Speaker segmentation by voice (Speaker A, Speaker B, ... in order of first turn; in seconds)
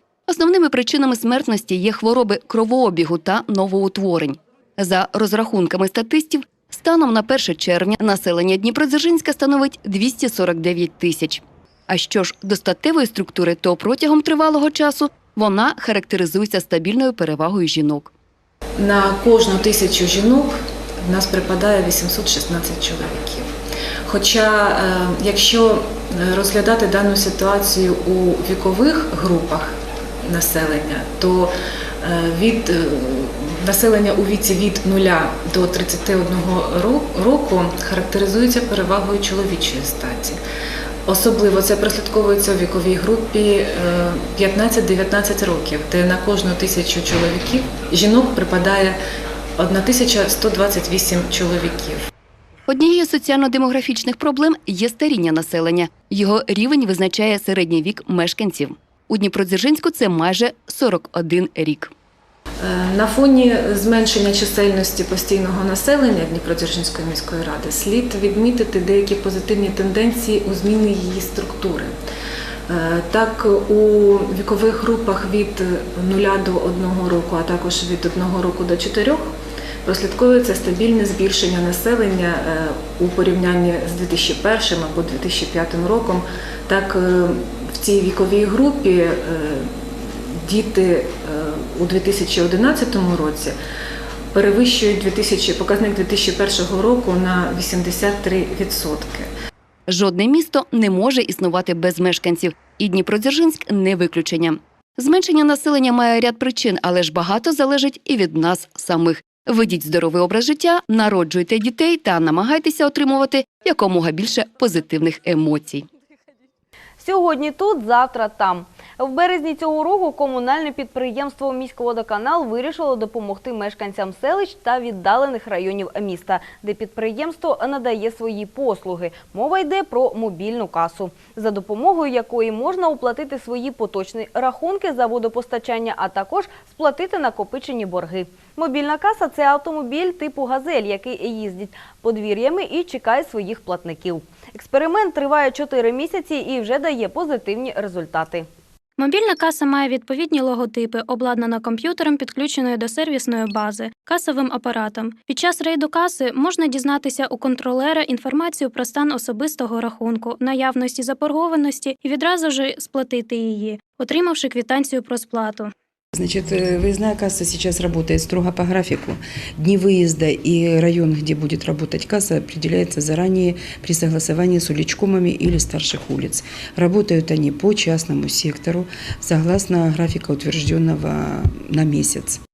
Speaker A: 0.3-18.1, 52.7-61.9, 99.9-115.8
Speaker B: 18.8-23.5, 24.1-40.4, 41.1-49.0, 49.6-52.1, 62.6-71.9, 72.7-93.6, 94.3-99.3
Speaker C: 117.0-148.5
Speaker D: 149.0-165.7
Speaker E: 166.1-182.4